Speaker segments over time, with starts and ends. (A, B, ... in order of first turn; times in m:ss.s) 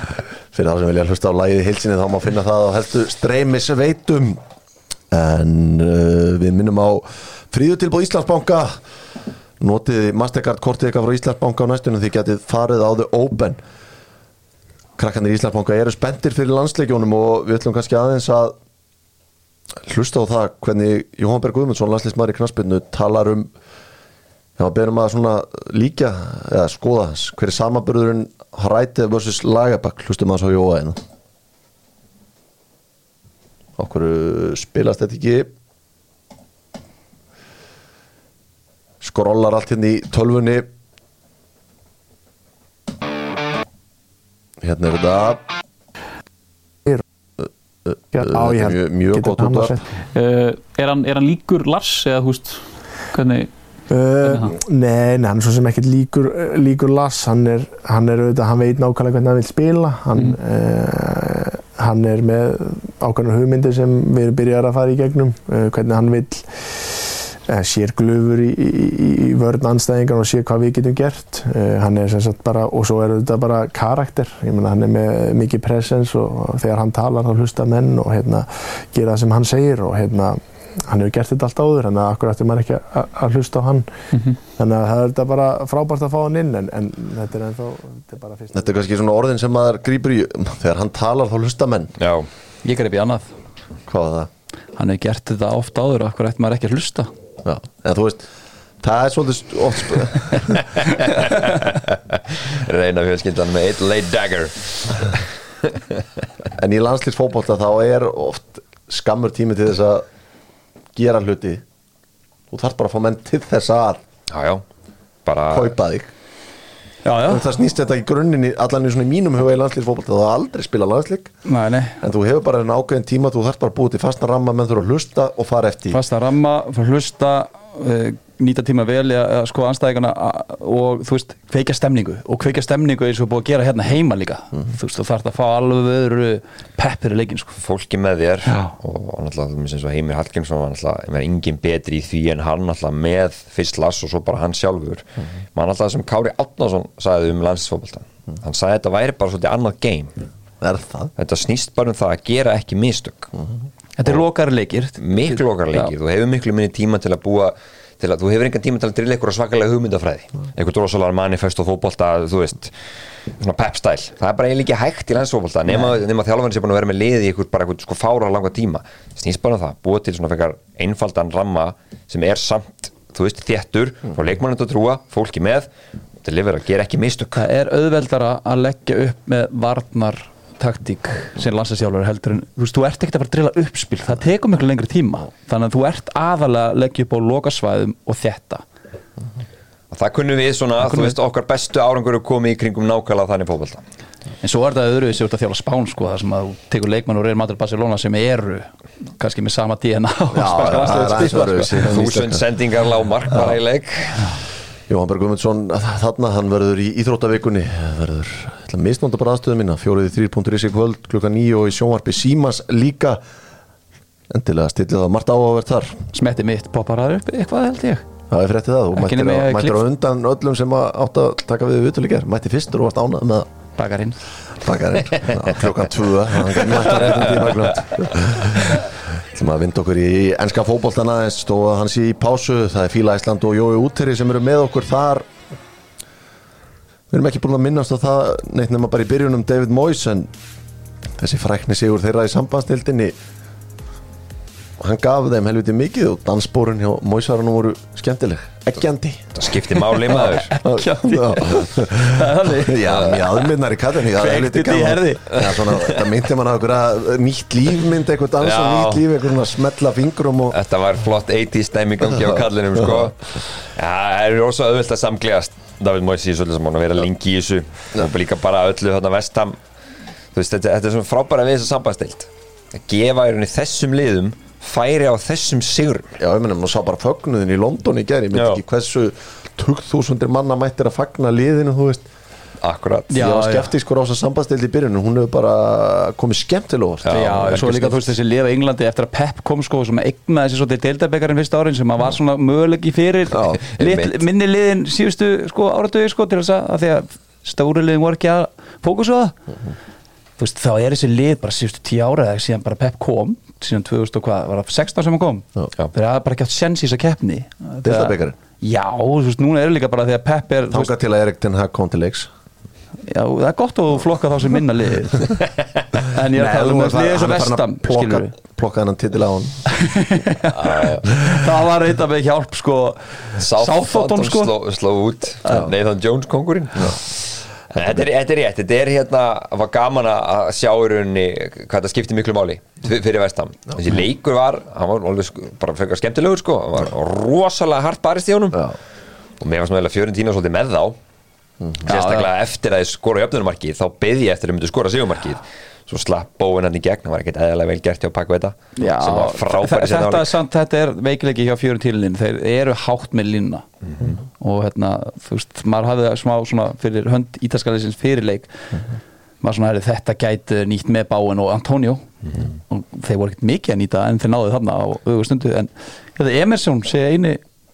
0:00.5-0:04.4 A
0:05.1-0:08.8 A
0:09.6-0:13.6 A
0:15.0-0:18.6 A
0:19.9-0:23.5 A
0:24.6-0:31.0 A
0:33.8-0:35.5 A
0:39.0-0:40.7 A
0:44.6-0:45.4 A
0:47.4-0:49.8 A
0:48.1-0:49.8 B
0:50.1-0:53.5 C
0:53.9-1:23.9 B
0:54.3-0:54.5 C
1:24.1-1:24.4 C
1:24.5-1:28.6 B
1:28.5-1:32.0 A
1:32.0-1:32.3 D
1:32.6-1:33.3 E
1:33.9-1:34.3 A
1:34.8-1:37.1 E
1:37.4-1:38.3 A
1:38.8-1:40.6 A
1:41.0-1:45.8 D
1:46.6-1:50.0 A
1:50.9-1:51.6 A
1:52.5-1:54.0 A
1:54.3-1:54.6 D
1:55.2-1:55.7 D
1:55.5-1:56.1 A
1:57.0-1:57.5 E
1:57.3-2:01.3 A
2:01.4-2:02.0 E
2:02.0-2:06.0 A
2:05.9-2:17.6 E
2:17.6-2:30.2 D
2:30.6-2:31.1 A
2:31.2-2:33.3 D
2:34.0-2:35.9 E
2:35.0-2:42.7 D
2:43.4-2:55.7 D
2:56.2-2:57.4 D
2:57.4-3:08.6 E
3:09.9-3:13.8 D
3:10.8-3:11.2 E
3:14.4-3:21.9 E
3:20.3-3:22.4 A
3:20.6-3:21.2 D
3:21.7-3:24.4 D
3:23.3-3:23.6 A
3:24.9-3:33.2 A
3:34.3-3:36.0 A
3:36.1-3:38.1 E
3:38.3-3:43.5 A
3:39.0-3:39.8 E
3:43.8-3:44.2 E
3:44.6-3:55.3 A
3:47.0-3:47.7 D
3:57.1-4:00.3 A
4:01.2-4:03.2 A
4:04.8-4:09.3 A
4:09.4-4:10.5 D
4:10.0-4:13.4 E
4:10.1-4:20.6 A
4:12.9-4:13.2 D
4:14.1-4:15.4 E
4:15.3-4:16.1 D
4:18.4-4:19.1 D
4:20.5-4:29.6 D
4:22.2-4:23.1 A
4:30.3-4:36.2 D
4:36.2-4:42.0 A
4:38.3-4:38.6 D
4:42.6-4:43.1 D
4:43.1-4:43.7 E
4:43.2-4:47.8 A
4:47.0-4:48.0 D
4:47.1-4:59.4 E
4:53.3-4:53.6 A
4:53.6-4:54.2 D
5:00.4-5:10.9 E
5:07.8-5:08.4 A
5:10.7-5:12.3 A
5:13.1-5:15.3 E
5:16.1-5:18.3 E
5:16.3-5:19.7 A
5:19.7-5:24.5 E
5:20.5-5:21.1 D
5:23.4-5:38.7 D
5:25.5-5:25.7 A
5:39.4-5:41.0 D
5:41.6-5:41.9 A
5:41.8-5:50.3 D
5:41.9-5:42.3 E
5:48.8-5:53.7 E
5:53.8-5:54.2 D
5:54.4-5:58.8 E
5:59.4-6:07.4 E